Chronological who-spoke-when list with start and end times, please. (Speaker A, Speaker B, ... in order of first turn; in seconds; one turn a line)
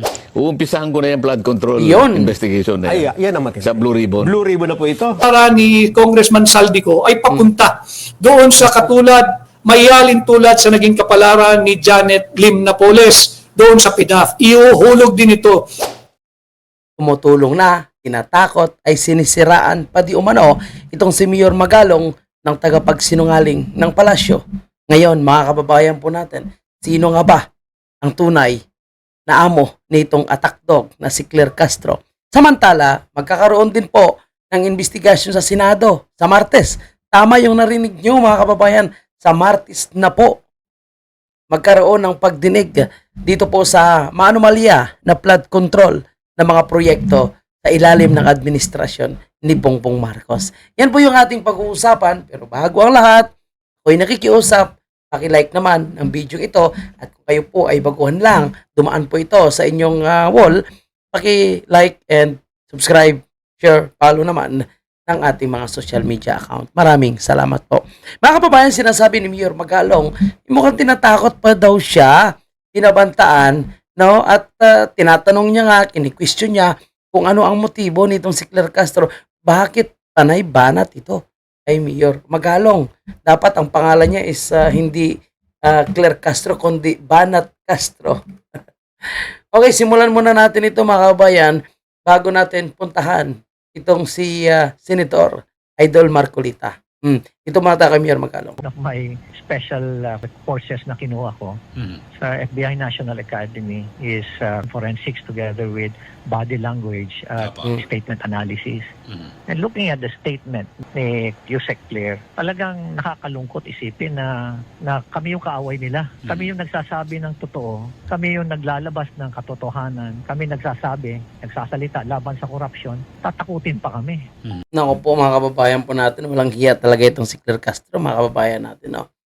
Speaker A: 0.3-3.1
Speaker B: 1.8-2.3
Speaker C: 2.9-5.2
Speaker A: 3.6-4.3
Speaker D: 5.2-15.6
Speaker B: 17.0-27.4
Speaker B: 28.0-28.6
Speaker B: 29.3-40.4
Speaker B: 41.5-53.3
Speaker B: 53.8-60.6
Speaker B: 61.1-85.1
Speaker B: 85.6-88.2
Speaker B: 89.5-98.6
Speaker E: 98.6-101.6
Speaker E: 102.1-108.9
Speaker E: 109.5-124.2
Speaker B: 124.7-129.1